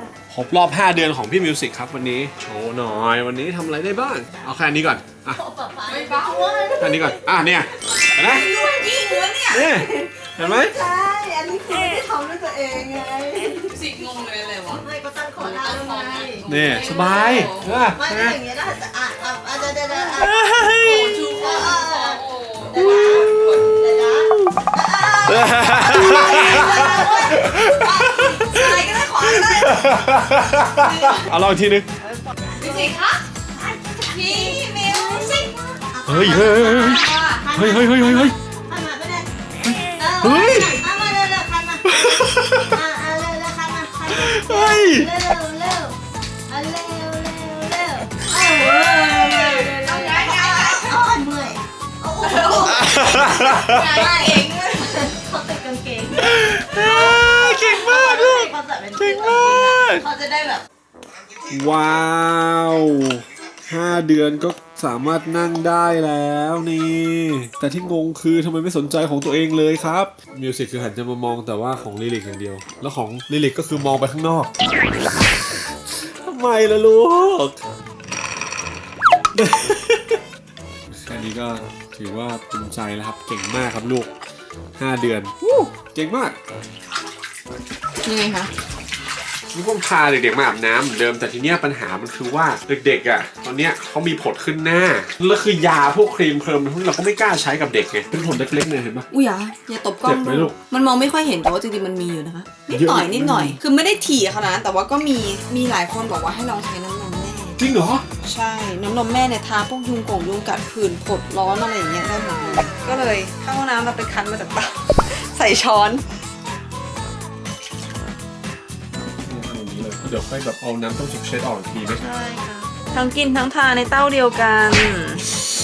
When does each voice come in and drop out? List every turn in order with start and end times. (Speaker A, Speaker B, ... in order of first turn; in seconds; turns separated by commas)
Speaker A: 0.3-5.4, Speaker B: 5.3-7.6, Speaker C: 5.9-6.8, Speaker A: 6.8-8.5, Speaker B: 8.2-20.6, Speaker C: 8.3-9.7, Speaker A: 9.5-10.8, Speaker C: 11.7-12.0, Speaker C: 13.3-17.7, Speaker A: 16.5-18.4, Speaker A: 20.2-21.2, Speaker C: 20.7-23.7, Speaker B: 21.2-29.8, Speaker A: 24.3-24.6, Speaker A: 25.3-31.9, Speaker C: 26.7-27.1, Speaker C: 28.5-29.7, Speaker B: 30.8-31.3, Speaker C: 30.9-31.2, Speaker B: 32.0-39.3, Speaker C: 32.6-33.2, Speaker C: 34.1-35.5, Speaker A: 36.1-38.4, Speaker C: 36.9-37.4, Speaker A: 39.6-40.8, Speaker B: 39.9-46.0, Speaker A: 41.9-42.8, Speaker A: 44.1-45.1, Speaker B: 46.5-60.6, Speaker C: 48.6-51.0, Speaker C: 52.2-54.9, Speaker A: 52.8-53.8, Speaker A: 56.2-60.0, Speaker A: 61.5-74.5, Speaker A: 75.9-77.7, Speaker A: 79.3-80.2, Speaker A: 80.9-84.1, Speaker A: 84.8-86.4, Speaker C: 88.0-88.5, Speaker A: 89.5-99.1, Speaker C: 99.1-107.6, Speaker A: 100.0-100.5, Speaker A: 102.7-103.6, Speaker A: 107.6-108.1, Speaker C: 108.2-116.0, Speaker A: 119.2-122.0, Speaker C: 122.0-125.3